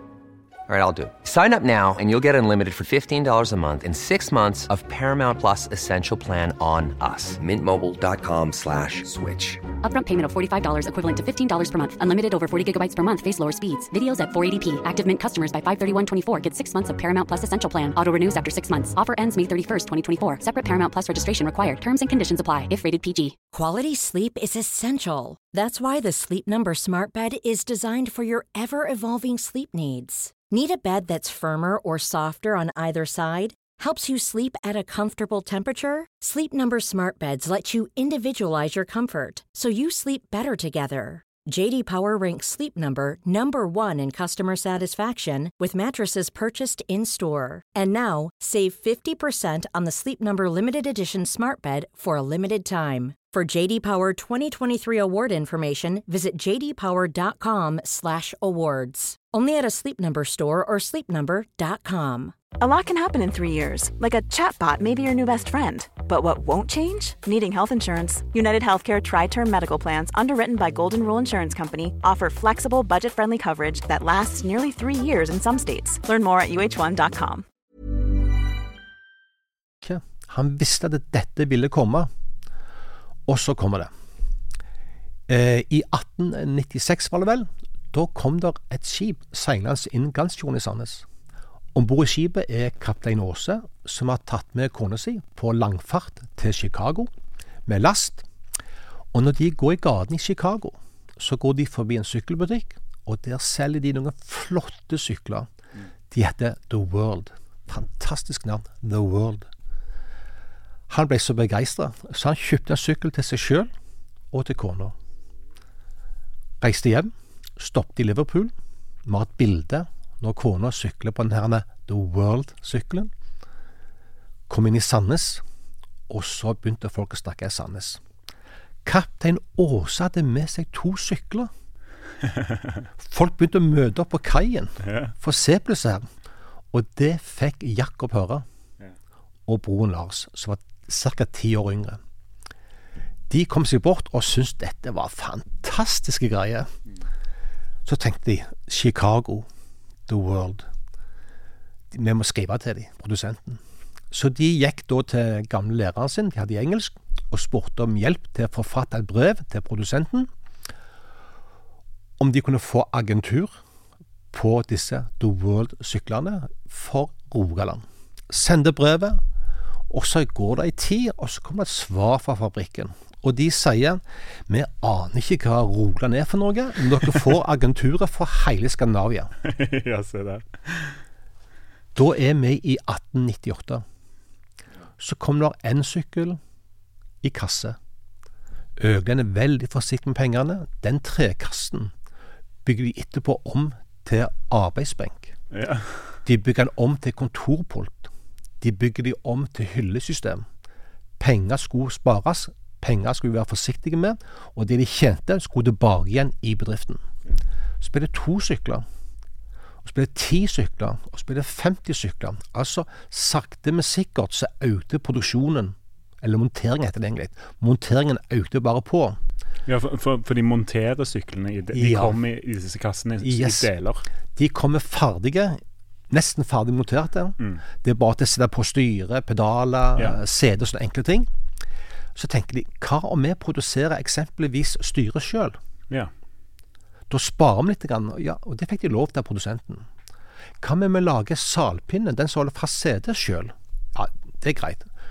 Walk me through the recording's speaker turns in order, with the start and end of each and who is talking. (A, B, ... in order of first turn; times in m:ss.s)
0:00.7-0:09.6 A
0:09.8-0:23.4 B
0:23.5-1:02.3 C
1:02.6-1:17.5 D
1:19.8-1:22.1 E
1:23.3-1:23.9 E
1:25.3-1:31.1 E
1:31.7-1:37.1 E
1:37.7-1:38.3 E
1:39.1-1:45.5 E
1:46.1-1:49.5 E
1:50.9-1:53.7 E
1:54.3-1:55.0 E
1:56.6-1:58.5 E
1:59.0-2:03.1 E
2:04.5-2:05.4 E
2:06.1-2:08.0 E
2:08.8-2:11.5 E
2:12.2-2:12.8 F
2:13.0-2:16.1 E
2:14.8-2:15.1 F
2:16.7-2:18.4 E
2:19.5-2:22.0 E
2:23.3-2:26.7 E
2:27.8-2:29.5 E
2:30.1-2:30.7 E
2:31.9-2:40.3 E
2:42.2-2:43.6 E
2:44.3-2:49.2 E
2:49.9-2:59.3 E
2:59.4-3:01.0 F
3:02.0-3:03.8 E
3:05.0-3:06.4 E
3:07.2-3:07.8 E
3:08.8-3:11.9 E
3:12.6-3:15.4 E
3:15.5-3:16.2 F
3:16.2-3:18.1 E
3:18.6-3:20.4 E
3:21.2-3:27.0 E
3:27.8-3:28.8 E
3:29.8-3:39.2 E
3:39.7-3:44.0 F
3:41.7-3:42.2 E
3:43.2-3:43.7 E
3:44.4-3:51.3 E
3:52.2-3:55.6 E
3:57.1-3:59.9 E
4:00.6-4:04.9 E